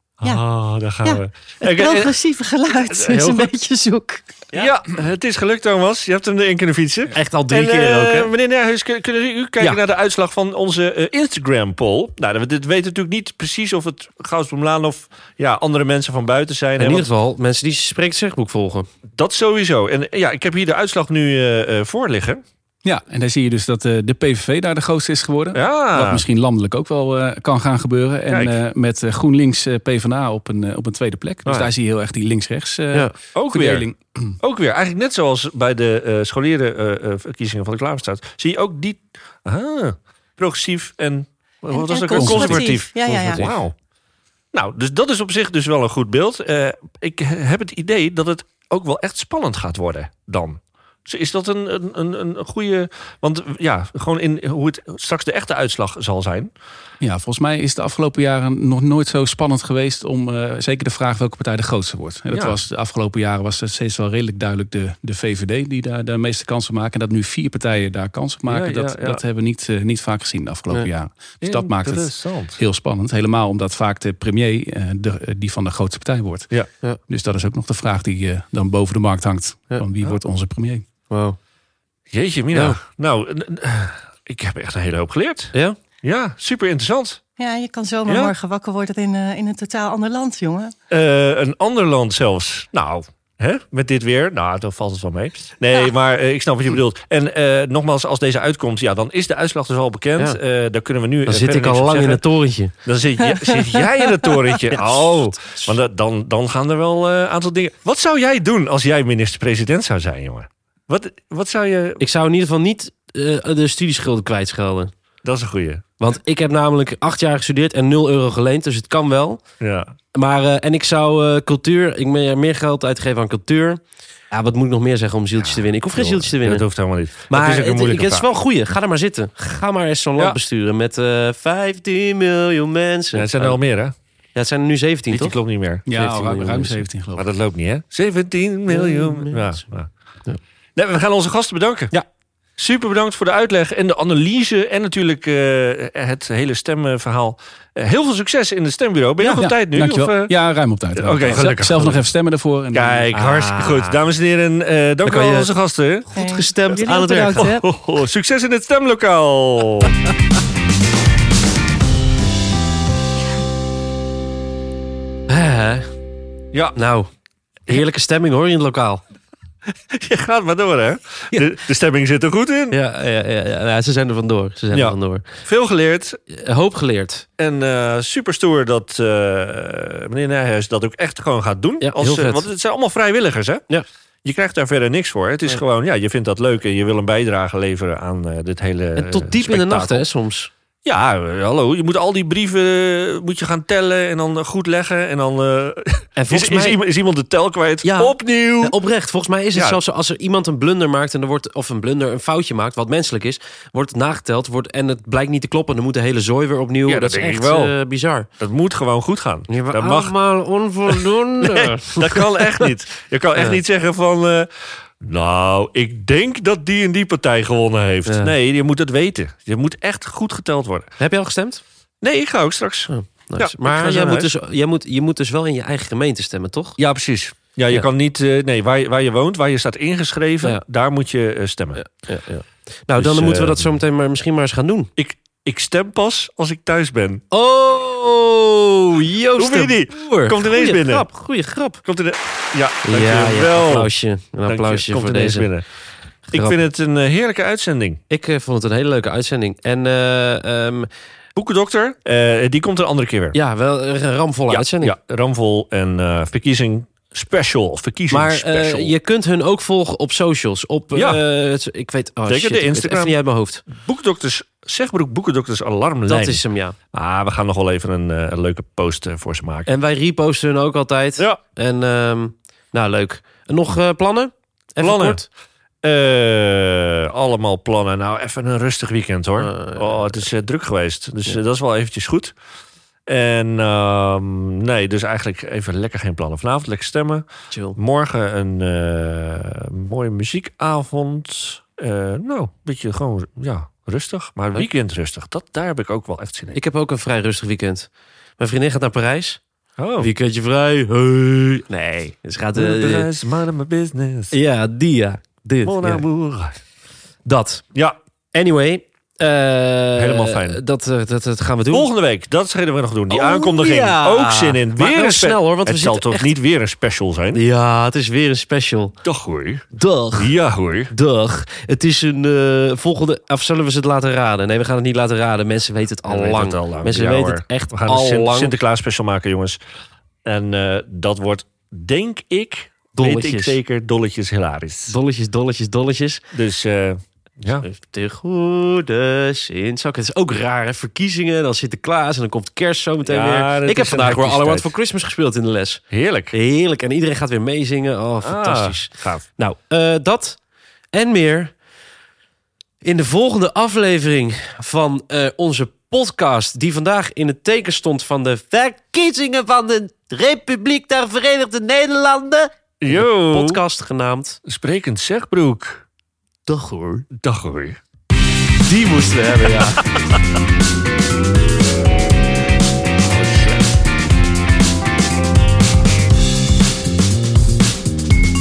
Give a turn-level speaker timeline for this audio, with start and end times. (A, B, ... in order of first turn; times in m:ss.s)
0:00.2-0:02.2 A
0:01.0-0:04.4 B
0:02.7-0:03.5 A
0:04.5-0:17.0 A
0:07.1-0:08.3 C
0:16.8-0:18.9 C
0:19.2-0:22.4 A
0:22.8-0:34.4 D
0:25.5-0:26.2 A
0:28.3-0:28.6 A
0:33.3-0:33.8 A
0:34.4-0:43.7 A
0:41.7-0:43.4 B
0:42.1-0:42.7 D
0:43.0-0:43.6 C
0:44.5-0:56.5 A
0:57.0-1:16.5 D
1:08.5-1:09.2 A
1:11.4-1:12.6 A
1:17.1-1:20.8 D
1:21.1-1:21.4 C
1:22.1-1:27.2 A
1:22.5-1:22.8 C
1:27.4-1:30.7 B
1:28.0-1:28.3 A
1:30.9-1:42.2 A
1:41.2-1:42.7 C
1:42.8-1:52.0 A
1:43.4-1:44.3 B
1:44.7-1:45.7 C
1:52.0-1:54.9 C
1:55.2-1:55.8 A
1:56.0-1:59.4 C
1:59.6-1:59.9 A
2:00.1-2:06.6 C
2:05.4-2:08.3 A
2:07.3-2:13.6 C
2:13.1-2:13.9 A
2:14.3-2:15.4 C
2:15.1-2:15.8 A
2:15.8-2:17.2 D
2:15.9-2:16.8 C
2:17.2-2:19.9 A
2:18.7-2:19.6 C
2:20.8-2:21.9 A
2:22.6-2:30.3 A
2:29.2-2:29.4 C
2:29.4-2:33.1 D
2:31.0-2:32.0 A
2:32.7-2:36.1 A
2:33.1-2:34.0 C
2:35.0-2:35.5 C
2:36.1-2:37.6 C
2:36.1-2:37.6 B
2:37.4-2:40.0 A
2:45.3-2:45.9 C
2:46.7-2:47.1 C
2:47.7-2:49.0 C
2:49.9-2:52.8 A
2:52.7-2:55.3 C
2:54.7-2:56.2 A
2:56.3-2:57.3 C
2:57.4-3:03.6 A
3:01.8-3:02.4 C
3:04.2-3:10.0 A
3:09.0-3:10.5 C
3:10.8-3:18.8 A
3:16.2-3:16.8 C
3:17.8-3:28.3 C
3:19.5-3:19.8 A
3:26.9-3:27.7 A
3:28.4-3:30.1 A
3:29.5-3:32.7 C
3:30.9-3:34.5 A
3:33.3-3:33.6 C
3:35.0-3:40.9 A
3:38.0-3:38.3 C
3:41.0-3:41.6 C
3:42.0-3:44.3 A
3:42.9-3:46.8 C
3:46.8-3:51.9 A
3:51.8-3:54.9 C
3:53.0-3:53.7 A
3:55.0-3:57.2 A
3:57.3-4:01.8 C
3:59.4-4:01.1 A
4:01.8-4:03.9 A
4:02.8-4:05.5 C
4:04.5-4:05.6 A
4:06.3-4:08.0 A
4:08.1-4:10.9 C
4:11.4-4:13.4 A
4:13.3-4:14.9 C
4:14.5-4:18.9 A
4:18.1-4:23.6 C
4:20.9-4:21.2 A
4:22.3-4:23.1 A
4:23.6-4:29.7 A
4:26.1-4:26.8 C
4:29.7-4:35.2 C
4:34.8-4:35.2 A
4:35.8-4:42.3 A
4:39.4-4:40.2 C
4:43.1-4:56.6 A
4:47.5-4:47.8 C
4:56.5-4:59.4 C
4:59.8-5:00.1 A
5:00.0-5:03.1 C
5:02.5-5:04.3 A
5:04.3-5:06.0 C
5:05.6-5:06.6 A
5:07.2-5:07.6 C
5:08.3-5:11.9 C
5:10.0-5:10.6 A
5:11.7-5:17.4 A
5:13.1-5:16.3 C
5:17.3-5:19.0 C
5:19.0-5:20.9 A
5:19.8-5:20.4 C
5:20.9-5:28.5 C
5:26.0-5:29.6 A
5:30.2-5:35.0 A
5:33.0-5:33.6 C
5:34.9-5:36.2 C
5:36.3-5:37.6 A
5:37.4-5:50.4 C
5:43.0-5:44.7 A
5:45.9-5:46.3 A
5:48.2-5:49.2 A
5:50.9-5:51.5 C
5:52.8-6:04.4 C
6:02.8-6:03.6 A
6:04.4-6:05.8 A
6:06.5-6:07.0 C
6:07.1-6:07.8 A
6:08.6-6:09.8 C
6:09.5-6:10.2 A
6:13.0-6:13.7 A